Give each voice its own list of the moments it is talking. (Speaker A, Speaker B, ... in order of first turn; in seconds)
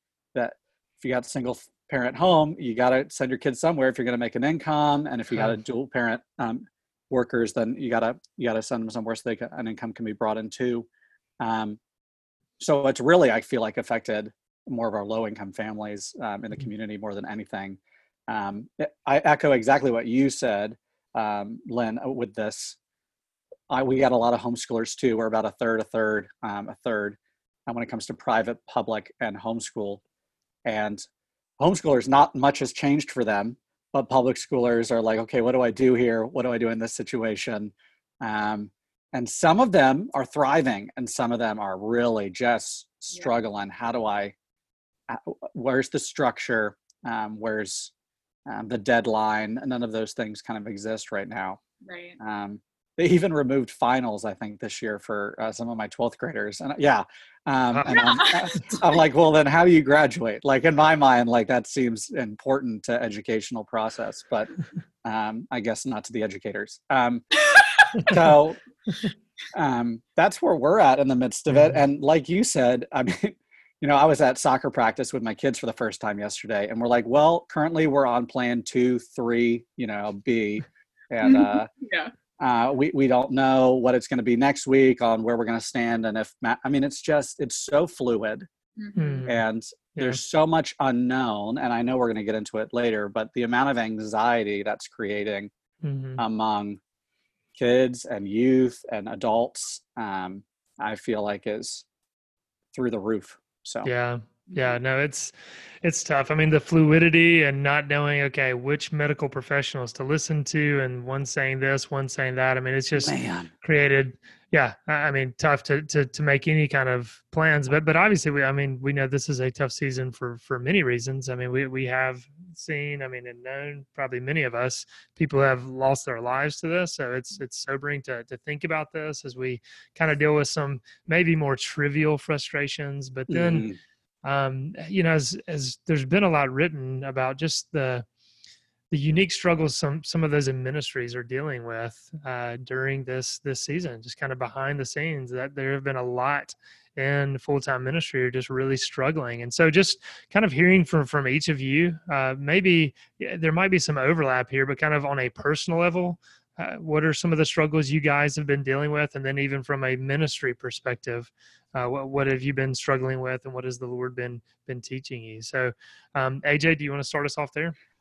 Speaker A: 0.3-10.9, 11.4-11.8, 12.6-22.8, 23.7-30.0, 30.6-31.0, 31.6-44.3, 45.1-47.9, 48.5-51.6, 52.2-64.5, 65.0-67.2, 68.0-68.6, 69.5-81.7, 82.4-88.5, 89.3-95.5, 96.2-96.8, 97.5-101.8, 102.7-103.9, 113.0-113.5, 133.3-133.8
Speaker B: 51.8-52.2, 57.9-58.9, 67.4-67.9, 81.2-82.1, 88.8-89.2
Speaker C: 57.7-58.2, 71.5-71.8, 89.0-89.4, 95.8-96.2, 103.8-133.7, 134.2-138.1, 138.9-167.7